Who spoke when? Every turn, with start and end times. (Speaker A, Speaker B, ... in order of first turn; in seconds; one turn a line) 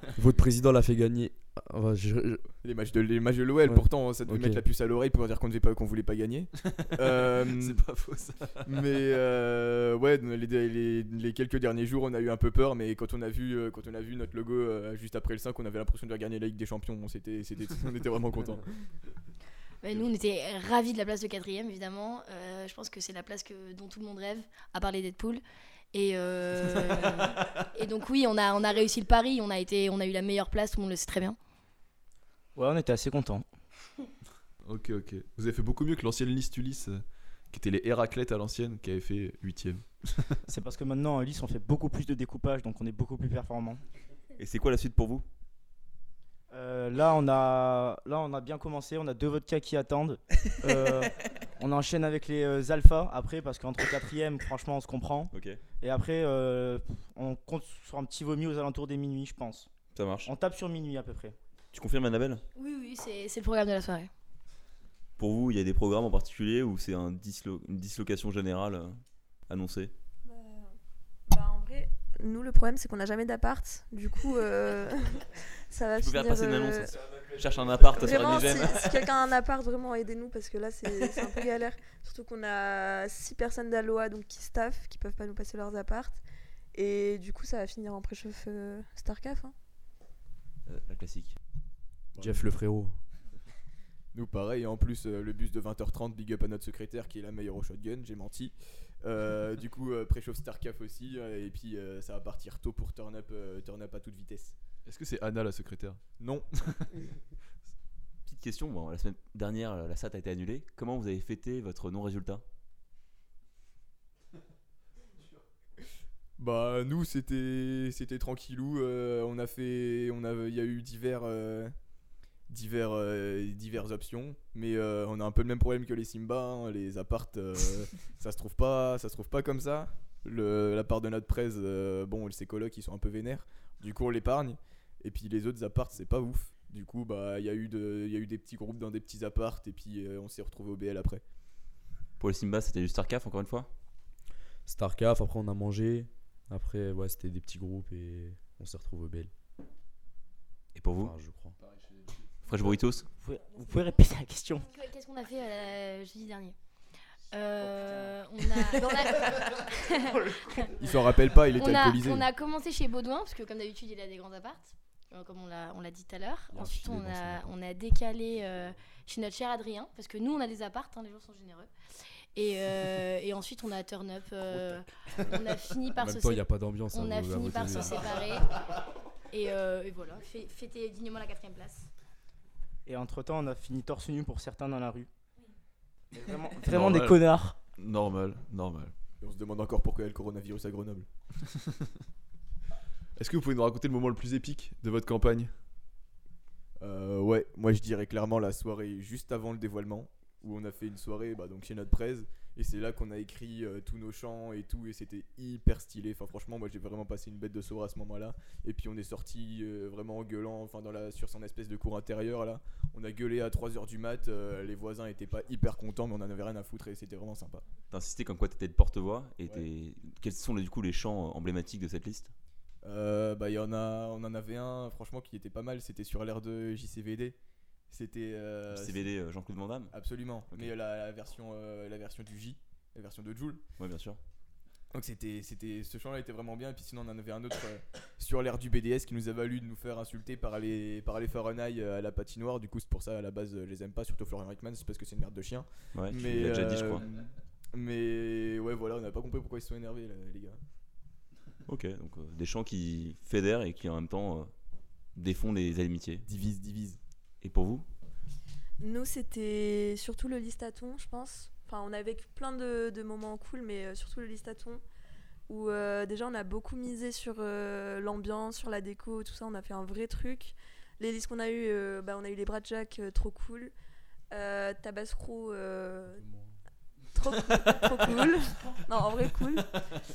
Speaker A: 0.1-2.5
Speaker B: 2.6-7.8
Speaker A: 3.6-4.6
Speaker C: 6.6-8.8
Speaker B: 8.7-18.6
Speaker D: 19.8-25.4
Speaker D: 25.9-31.4
Speaker C: 27.0-27.3
Speaker E: 32.6-33.5
Speaker C: 34.6-40.4
Speaker E: 40.5-43.8
Speaker F: 44.4-45.2
Speaker E: 46.5-59.7
Speaker F: 55.3-55.6
Speaker F: 59.9-60.3
Speaker E: 60.2-61.4
Speaker F: 61.7-62.4
Speaker D: 62.5-64.1
Speaker F: 65.2-69.9
Speaker G: 70.3-70.7
Speaker G: 71.3-76.9
Speaker F: 76.0-79.1
Speaker G: 77.9-86.2
Speaker G: 86.7-89.5
Speaker F: 90.7-91.4
Speaker B: 92.1-92.5
Speaker A: 92.2-93.0
Speaker B: 94.1-104.5
Speaker C: 104.9-106.0
Speaker B: 106.2-106.5
Speaker F: 108.3-112.4
Speaker B: 116.4-121.7
Speaker B: 122.5-141.2
Speaker F: 142.2-143.7
Speaker A: 144.7-149.3
Speaker F: 150.8-151.2
Speaker A: 151.0-151.6
Speaker C: 151.6-152.7
Speaker F: 152.5-153.1
Speaker E: 153.2-154.7
Speaker D: 154.7-156.6
Speaker D: 157.3-160.7
Speaker E: 157.6-160.9
Speaker B: 160.8-162.2
Speaker D: 161.6-171.7
Speaker A: 166.5-167.5
Speaker D: 172.3-178.6
Speaker A: 175.9-178.1
Speaker D: 179.3-181.9
Speaker E: 182.9-185.1
Speaker E: 186.1-187.6
Speaker C: 186.7-187.2
Speaker C: 187.8-188.9
Speaker B: 189.2-191.1
Speaker C: 193.2-195.5
Speaker B: 196.8-217.6
Speaker F: 217.9-222.3
Speaker B: 222.8-227.4
Speaker B: 227.9-229.1
Speaker F: 228.7-229.9
Speaker B: 229.9-233.6
Speaker F: 233.8-234.2
Speaker B: 234.9-250.6
Speaker F: 245.9-247.1
Speaker F: 251.7-254.5
Speaker F: 255.2-256.2
Speaker B: 256.3-257.0
Speaker F: 257.4-257.9
Speaker G: 258.8-264.8
Speaker G: 265.5-273.7
Speaker G: 274.3-276.2
Speaker A: 276.2-276.5
Speaker G: 277.1-279.8